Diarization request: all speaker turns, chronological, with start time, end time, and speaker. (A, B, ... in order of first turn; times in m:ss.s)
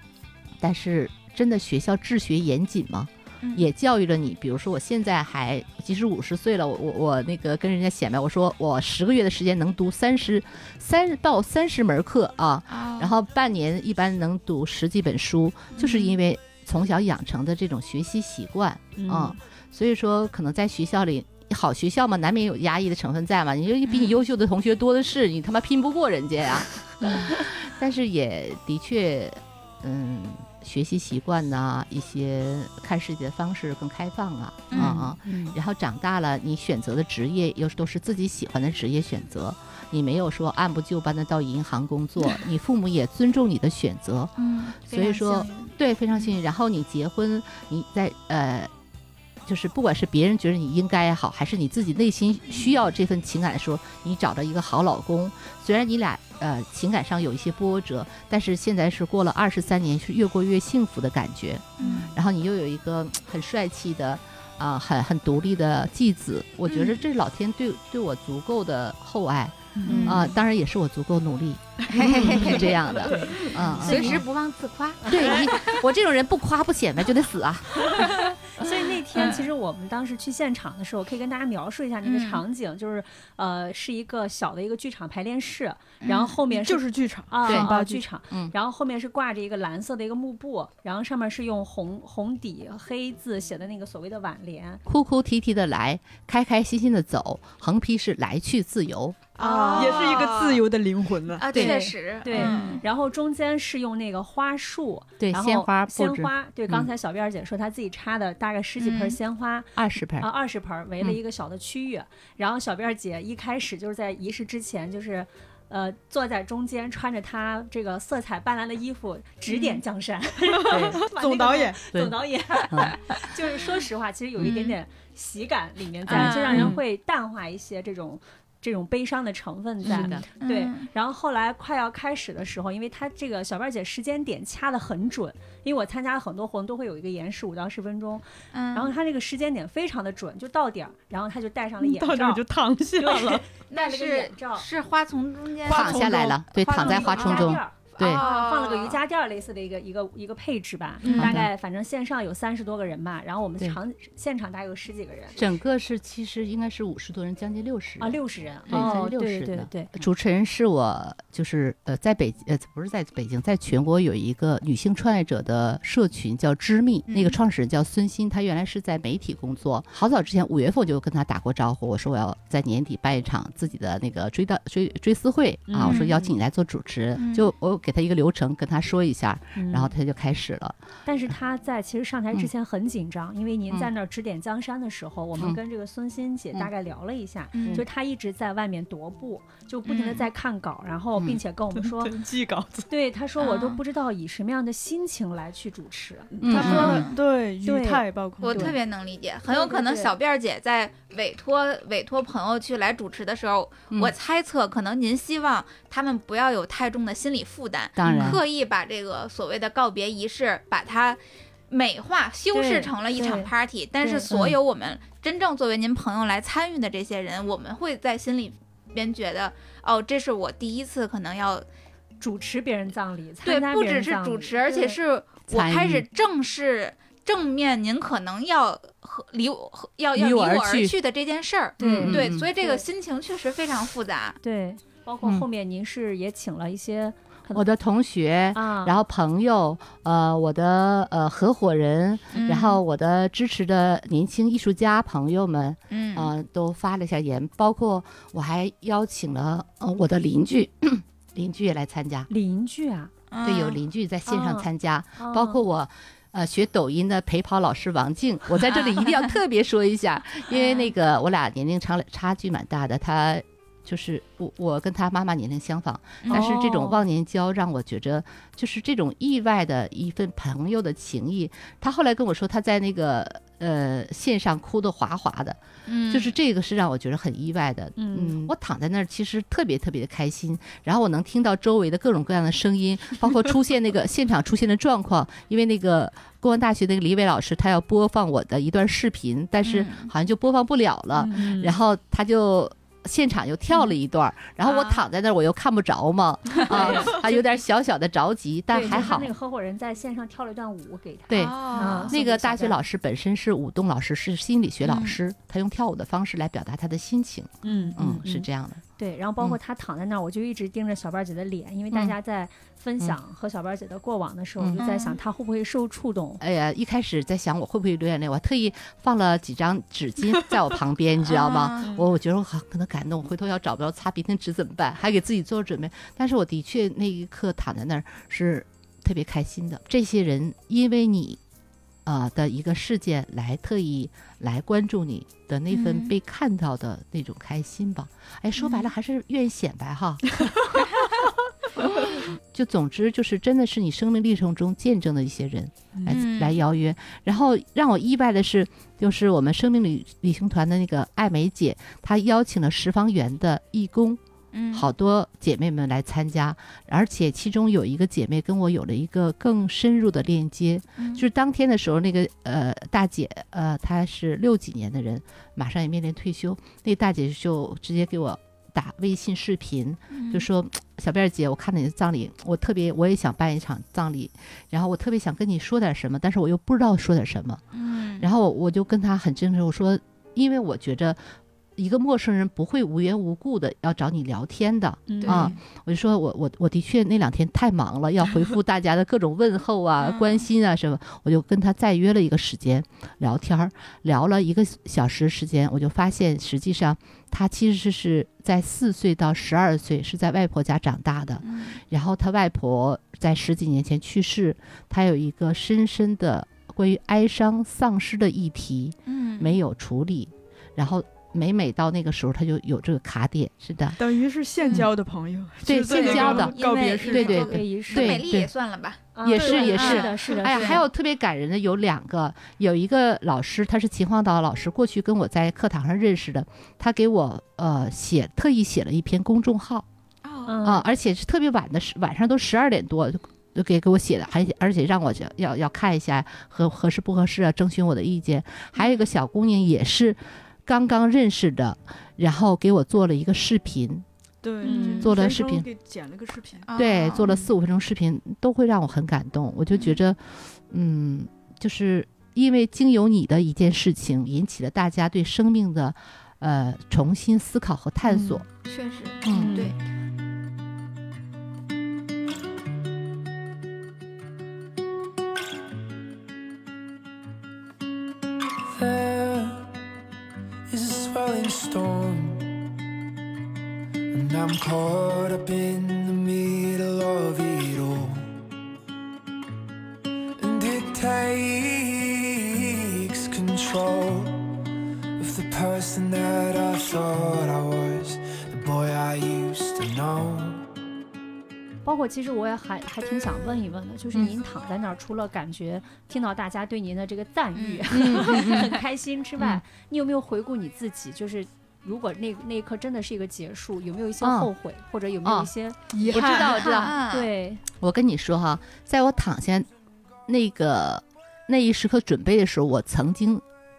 0:00.6-0:48.7 A
0:12.7-0:13.1 B
0:15.8-0:16.2 B
0:19.0-0:19.4 C
0:23.9-0:24.2 B
0:34.7-0:35.0 B
0:34.7-0:35.6 C
0:44.4-0:45.7 B
0:49.5-1:14.2 A
1:01.8-1:02.1 B
1:01.8-1:02.1 D
1:06.7-1:07.0 B
1:09.8-1:10.3 D
1:09.9-1:10.3 C
1:11.9-1:12.8 B
1:11.9-1:13.6 D
1:13.0-1:14.2 C
1:13.8-1:15.8 B
1:15.0-1:15.4 C
1:15.1-1:18.1 A
1:18.6-1:34.8 C
1:19.2-1:19.5 B
1:22.0-1:22.4 B
1:26.0-1:26.4 B
1:26.5-1:28.0 D
1:27.5-1:27.7 A
1:34.9-1:39.2 A
1:39.4-1:40.6 B
1:39.4-1:40.1 C
1:39.7-1:41.4 D
1:41.4-1:42.8 B
1:41.6-2:24.7 C
1:45.2-1:46.9 A
1:48.8-1:49.2 B
1:49.8-1:50.3 A
2:00.4-2:01.8 D
2:00.7-2:01.0 A
2:02.7-2:03.3 A
2:04.4-2:04.8 B
2:06.1-2:06.7 B
2:06.1-2:06.8 A
2:09.8-2:10.1 D
2:09.9-2:10.3 A
2:10.4-2:10.9 B
2:18.5-2:18.9 B
2:21.8-2:23.4 D
2:23.7-2:29.0 B
2:25.6-2:28.2 A
2:25.8-2:26.3 D
2:26.6-2:35.4 C
2:31.0-2:31.4 D
2:31.1-2:31.5 A
2:35.4-3:00.8 A
2:38.0-2:39.9 C
2:38.7-2:39.0 B
2:47.1-2:47.4 B
2:55.7-2:56.2 C
2:55.9-2:56.2 B
2:57.2-2:57.5 B
2:59.6-2:59.9 C
3:01.0-3:12.2 C
3:07.5-3:07.8 B
3:09.9-3:10.2 B
3:11.2-3:11.4 A
3:11.8-3:12.9 D
3:12.9-3:17.0 C
3:13.4-3:13.8 B
3:16.3-3:18.7 D
3:16.4-3:17.1 A
3:16.5-3:17.2 B
3:17.6-3:18.8 C
3:18.4-3:41.7 B
3:19.5-3:20.1 C
3:28.0-3:28.4 A
3:28.1-3:28.4 C
3:32.5-3:34.4 C
3:34.3-3:34.6 A
3:42.2-3:45.0 C
3:43.4-3:54.4 B
3:45.5-3:46.0 A
3:50.2-3:51.0 A
3:51.8-3:52.8 C
3:51.8-3:52.5 A
3:54.4-3:57.6 C
3:57.5-4:12.3 A
3:58.5-3:59.0 C
4:02.3-4:02.6 C
4:02.3-4:02.8 B
4:05.9-4:06.3 B
4:12.3-4:13.1 C
4:13.3-4:13.8 B
4:13.4-4:59.3 A
4:14.3-4:15.6 C
4:18.7-4:19.3 B
4:20.5-4:20.9 B
4:26.2-4:26.5 B
4:26.3-4:27.0 C
4:35.9-4:36.3 B
4:38.0-4:38.5 C
4:49.6-4:50.1 B
4:51.2-4:51.8 C
4:54.6-4:55.0 B
4:56.6-4:57.2 B
4:56.7-4:57.2 C
4:58.7-5:02.8 C
4:58.8-4:59.1 B
5:01.3-5:08.8 A
5:01.3-5:02.2 B
5:04.8-5:05.2 B
5:07.6-5:16.4 C
5:07.7-5:07.9 D
5:14.8-5:15.2 B
5:16.4-5:31.4 A
5:21.2-5:21.8 B
5:32.1-5:40.5 A
5:35.7-5:36.1 B
5:38.6-5:38.9 B
5:41.8-5:42.3 B
5:42.0-5:54.2 A
5:46.1-5:46.6 B
5:54.5-5:54.9 B
5:54.7-6:17.6 A
6:01.0-6:01.2 B
6:10.1-6:10.5 B
6:17.7-6:18.3 B
6:18.2-6:54.0 A
6:25.1-6:25.5 C
6:25.2-6:25.6 B
6:30.0-6:30.4 B
6:41.4-6:41.8 B
6:49.1-6:49.6 B
6:54.0-6:57.6 D
6:55.6-6:56.6 A
6:55.9-7:00.8 B
6:57.1-6:58.5 A
6:57.5-6:58.2 C
6:59.2-7:00.8 C
6:59.2-7:09.9 A
6:59.3-7:00.4 D
7:10.2-7:10.7 B
7:10.5-7:10.8 C
7:10.6-7:24.1 A
7:18.8-7:19.1 B
7:24.4-7:26.7 D
7:24.6-7:25.1 C
7:24.6-7:25.1 B
7:25.0-7:25.7 A
7:26.7-7:27.4 B
7:26.8-7:38.5 A
7:29.7-7:30.0 B
7:38.1-7:38.4 C
7:38.6-7:39.8 B
7:39.2-7:39.7 A
7:39.3-7:39.7 C
7:48.7-7:49.7 E
7:50.7-7:52.5 E
7:54.1-7:58.4 E
8:00.4-8:04.4 E
8:05.2-8:10.6 E
8:11.8-8:25.8 C
8:17.6-8:18.6 B
8:17.9-8:18.7 A
8:24.2-8:24.5 A
8:25.2-8:27.0 A
8:25.9-8:26.6 D
8:26.0-8:27.3 B
8:26.6-8:27.6 C
8:27.8-8:29.7 A
8:30.3-8:33.4 A